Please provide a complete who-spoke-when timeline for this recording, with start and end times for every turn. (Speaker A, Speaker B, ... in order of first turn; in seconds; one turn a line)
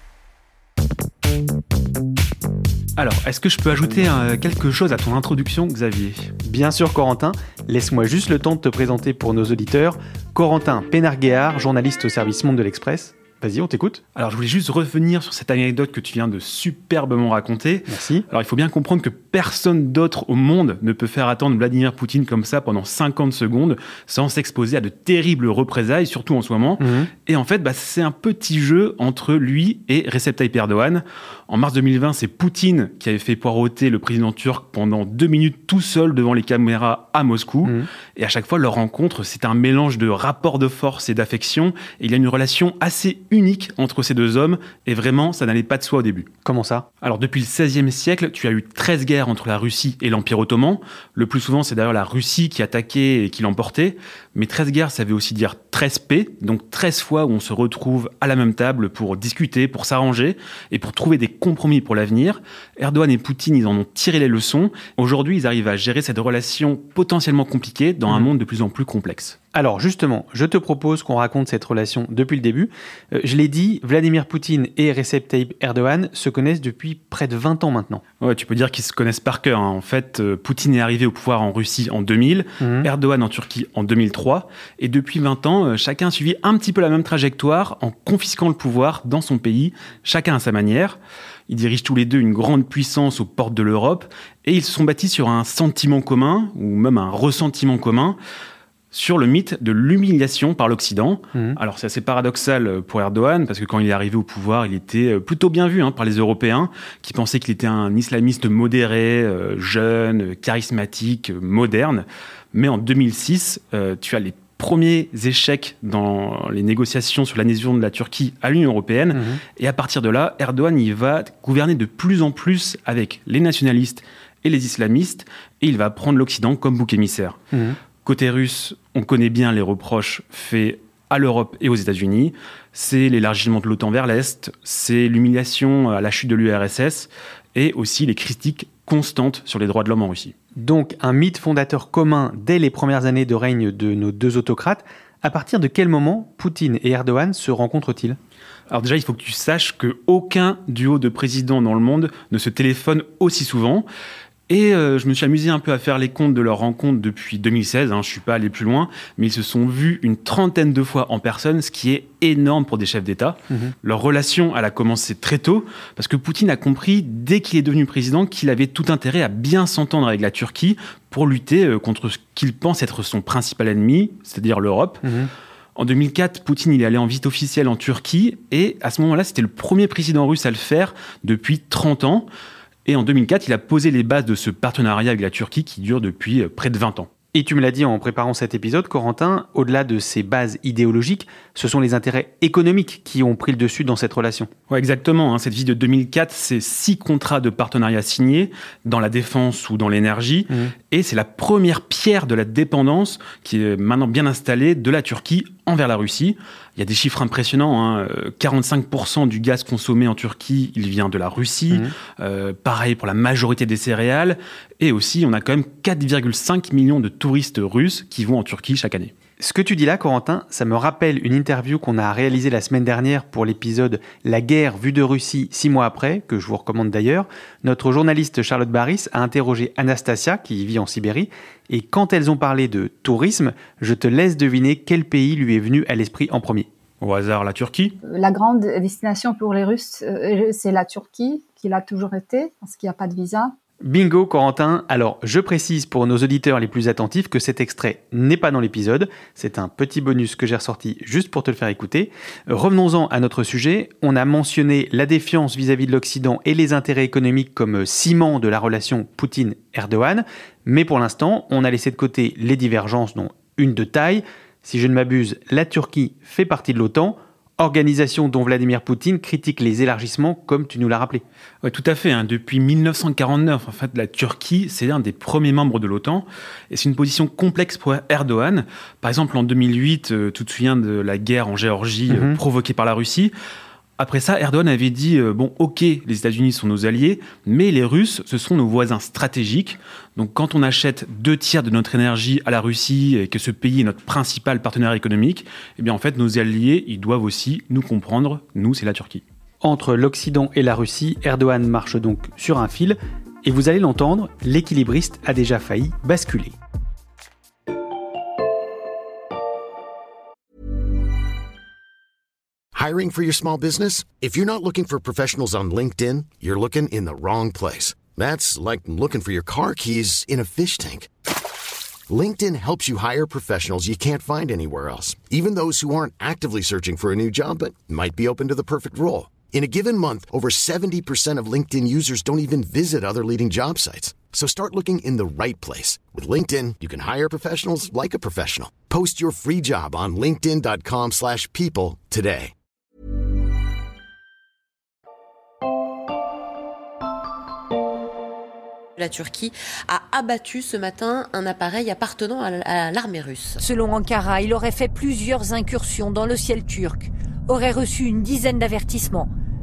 Speaker A: 3.0-6.3
Speaker B: 6.4-14.0
Speaker A: 14.2-46.3
Speaker B: 17.9-18.3
Speaker B: 26.8-27.1
Speaker B: 46.4-46.9
Speaker A: 47.0-69.4
Speaker B: 69.5-78.0
Speaker A: 78.2-98.2
Speaker B: 82.6-82.9
Speaker A: 98.9-127.4
Speaker B: 119.1-119.4
Speaker B: 127.5-127.8
Speaker A: 128.0-140.3
Speaker B: 140.6-148.2
Speaker A: 148.7-153.9
Speaker A: 154.5-175.0
Speaker B: 175.0-175.3
Speaker A: 175.8-182.3
Speaker A: 182.8-187.1
Speaker B: 187.3-194.5
Speaker A: 194.7-219.1
Speaker B: 219.4-236.7
Speaker A: 237.0-237.9
Speaker C: 238.0-243.5
Speaker B: 243.8-271.2
Speaker A: 271.6-283.3
Speaker B: 282.1-282.4
Speaker A: 284.0-299.2
Speaker B: 299.6-306.6
Speaker D: 312.8-321.1
Speaker D: 322.1-342.5
Speaker E: 349.0-353.6
Speaker F: 353.6-359.3